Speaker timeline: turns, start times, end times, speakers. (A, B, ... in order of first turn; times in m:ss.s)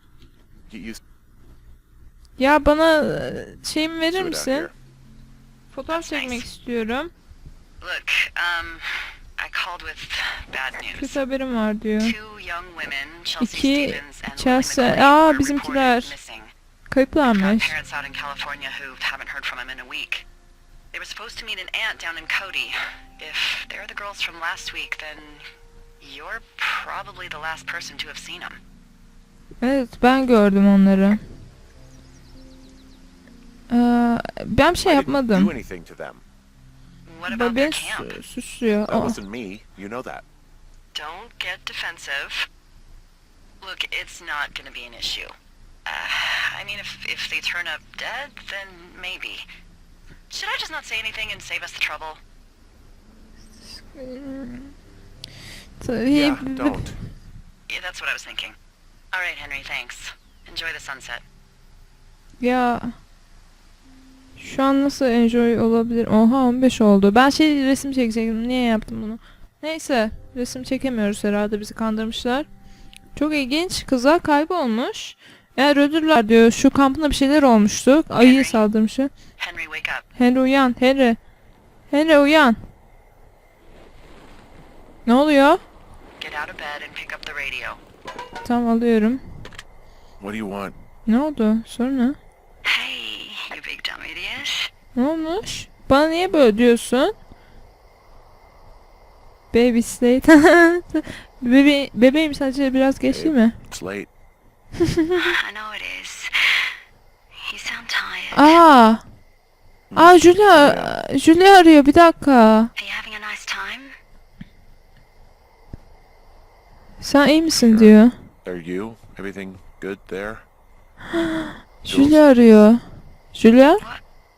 0:00.7-0:01.0 A
0:02.4-0:04.7 B
0:04.1-0:04.7 A
0:05.7-0:07.1 B
0:05.9-0:06.5 C
0:07.8-0:11.2 C
0:10.9-0:12.1 B
0:12.0-0:16.5 C
0:13.4-0:16.1 B
0:16.9-0:17.7 B
0:17.2-0:20.2 C
0:20.9-0:25.4 C
0:26.0-0:28.6 C
0:29.6-0:31.2 B
0:33.7-0:35.5 B
0:34.8-0:36.2 A
0:37.0-0:38.2 C
0:37.3-0:39.2 B
0:38.9-0:40.2 A
0:40.9-0:42.5 C
0:43.6-0:45.3 C
0:45.8-0:49.5 C
0:50.3-0:52.2 C
0:53.6-0:54.7 B
0:55.8-0:56.9 B
0:56.1-0:57.0 A
0:57.7-0:58.6 C
0:59.1-1:01.2 C
1:02.4-1:02.9 B
1:04.4-1:12.5 B
1:13.2-1:19.1 B
1:18.2-1:18.6 C
1:19.4-1:20.1 C
1:20.2-1:21.2 B
1:21.9-1:22.6 B
1:25.0-1:25.6 B
1:26.2-1:27.8 C
1:28.4-1:29.2 B
1:30.2-1:30.8 A
1:31.0-1:32.2 B
1:32.6-1:34.7 C
1:35.0-1:37.1 B
1:39.5-1:43.6 B
1:43.1-1:44.1 A
1:44.8-1:45.4 B
1:45.1-1:46.8 C
1:47.4-1:48.6 C
1:48.3-1:49.0 B
1:49.9-1:51.0 A
1:50.0-1:52.7 B
1:52.8-1:53.9 C
1:57.0-1:58.1 B
1:57.6-1:57.9 A
1:58.4-2:00.4 A
2:01.1-2:02.8 B
2:01.9-2:02.2 A
2:03.3-2:03.8 B